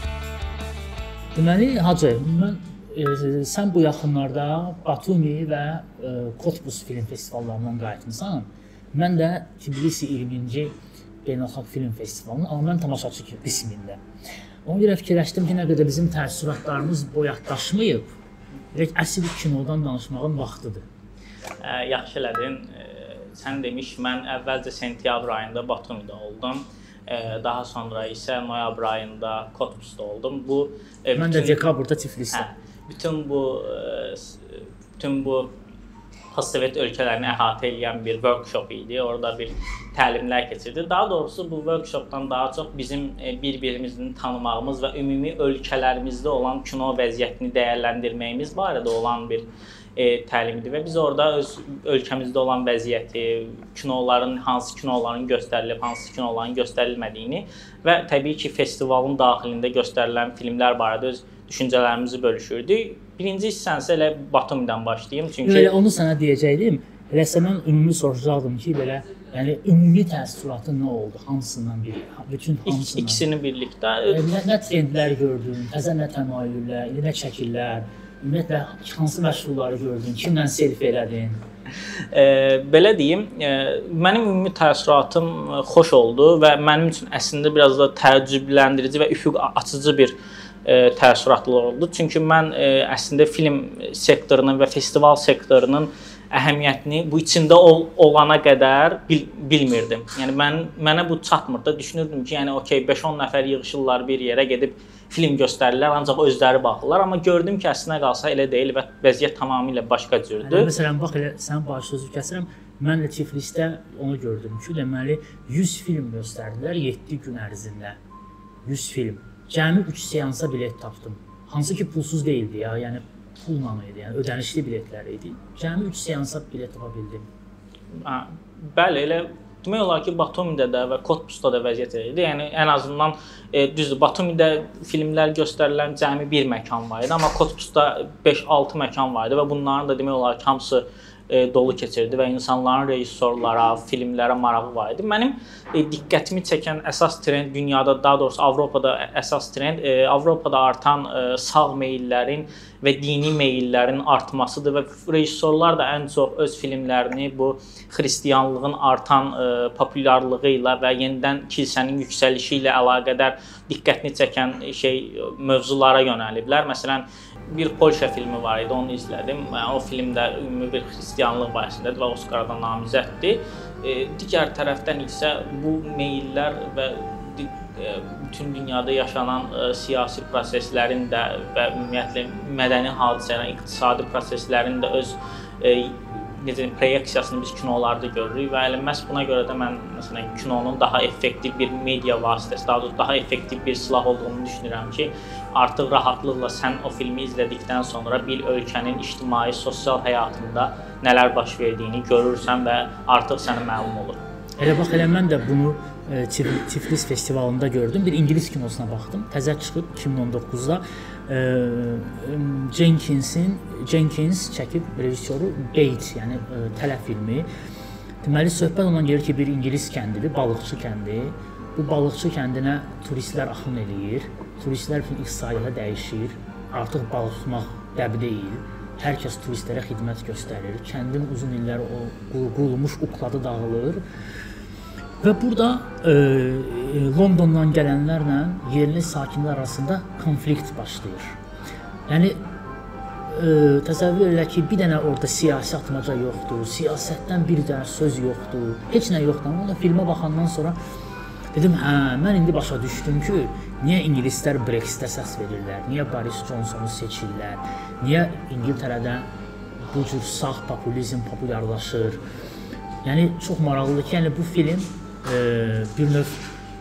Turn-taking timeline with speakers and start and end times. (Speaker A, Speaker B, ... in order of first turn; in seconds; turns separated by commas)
Speaker A: 1.3-10.7, Speaker A: 11.2-14.0, Speaker A: 14.6-18.1, Speaker A: 18.7-20.9, Speaker B: 21.6-31.6, Speaker A: 31.1-32.5, Speaker B: 32.3-35.5, Speaker B: 36.3-65.7, Speaker A: 65.4-73.2, Speaker B: 72.7-74.3, Speaker A: 74.1-81.4, Speaker B: 82.0-110.7, Speaker A: 110.4-118.0, Speaker A: 118.6-127.3, Speaker B: 127.9-204.2, Speaker A: 204.6-217.5, Speaker A: 218.2-234.0, Speaker A: 235.2-241.3, Speaker A: 242.1-242.4, Speaker A: 243.3-250.8, Speaker A: 251.5-259.2, Speaker A: 259.8-262.2, Speaker A: 263.0-266.4